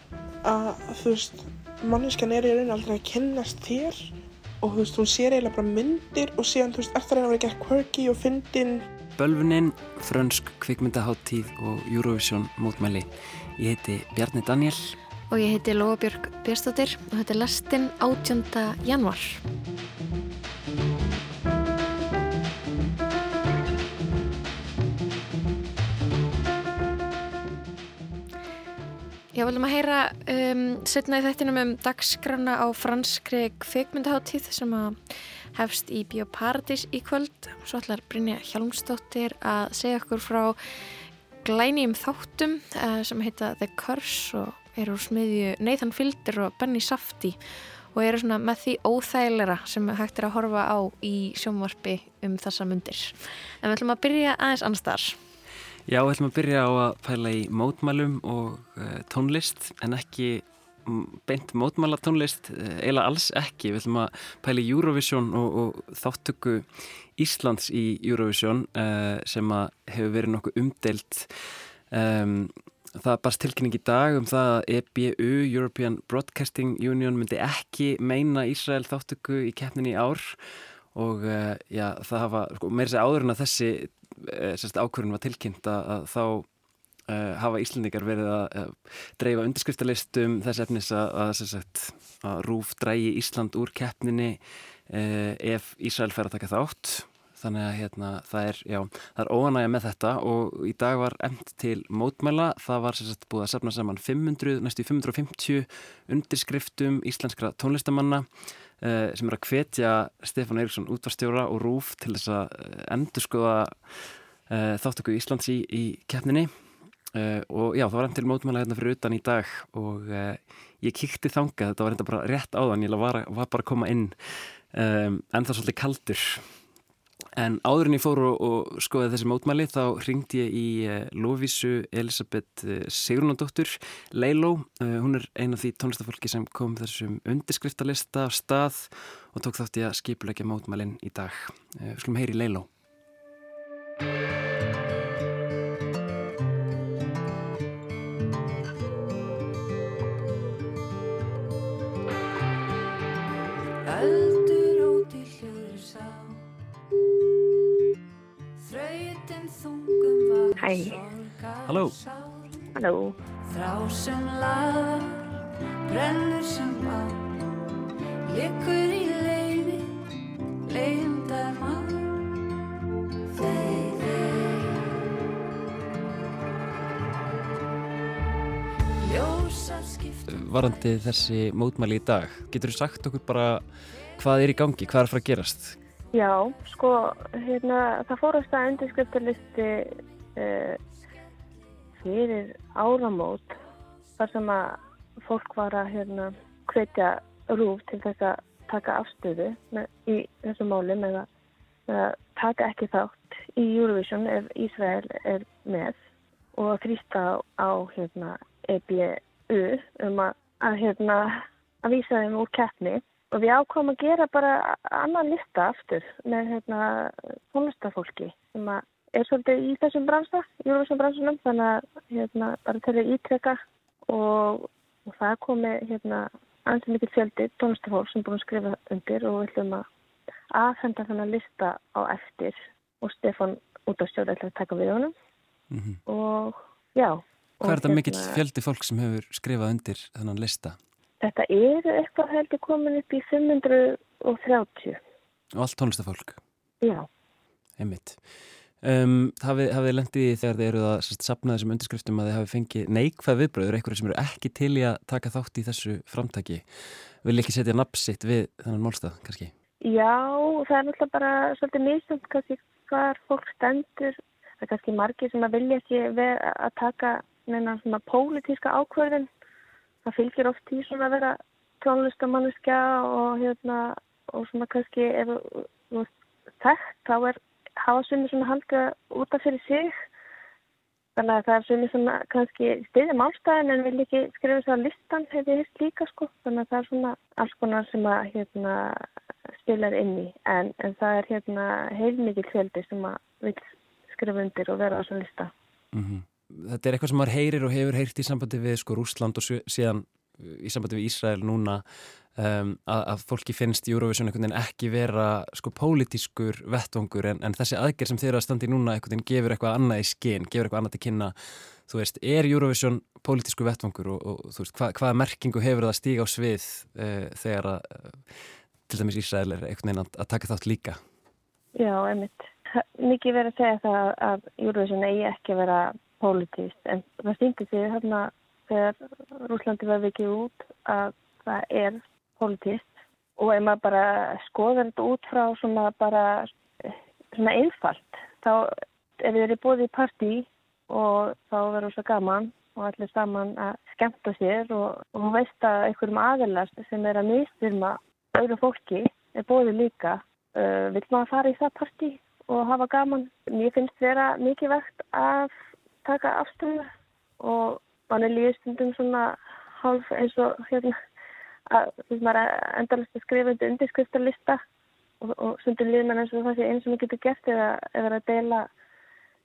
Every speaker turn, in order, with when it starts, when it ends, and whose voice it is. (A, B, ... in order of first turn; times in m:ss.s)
0:00.4-0:08.8 A
0:09.2-0:14.9 B
0:15.3-0:19.4 C
0:29.3-0:35.0 C
0:35.5-0:40.6 C
0:41.4-0:47.4 C
0:47.9-0:55.2 C
0:55.9-1:06.6 B
1:07.2-1:11.3 B
1:11.9-1:20.4 B
1:20.9-1:26.5 B
1:27.1-1:48.2 B
1:48.8-1:53.8 B
1:54.5-1:56.5 B
1:57.1-2:06.4 B
2:07.4-2:22.7 B
2:33.8-2:36.4 D
2:38.6-2:42.6 D
2:40.6-2:40.9 E
2:41.7-2:42.0 B
2:42.7-2:43.2 E
2:43.5-2:45.3 D
2:45.8-2:47.2 D
2:48.3-2:49.9 D
2:50.6-2:52.2 D
2:53.3-2:54.8 D
2:59.0-3:00.8 D
3:00.3-3:03.6 B
3:04.2-3:05.8 B
3:06.1-3:10.8 E
3:12.0-3:13.6 E
3:14.2-3:21.3 E
3:21.9-3:26.0 E
3:26.5-3:49.8 E
3:50.5-3:55.1 E
3:55.7-3:56.0 B
3:56.1-3:58.4 E
3:57.6-4:00.8 B
4:01.2-4:05.0 E
4:05.5-4:06.4 B
4:06.8-4:07.1 E
4:07.8-4:08.2 B
4:08.8-4:16.6 B
4:17.2-4:19.5 B
4:19.8-4:29.3 E
4:30.0-4:36.1 E
4:36.6-4:39.9 E
4:41.2-4:49.0 E
4:49.6-4:55.5 E
4:55.9-5:01.8 B
5:02.4-5:18.3 B
5:18.9-5:21.0 B
5:21.8-5:55.5 E
5:56.0-5:56.9 E
5:57.4-6:00.9 E
6:01.7-6:04.6 E
6:05.2-6:08.7 E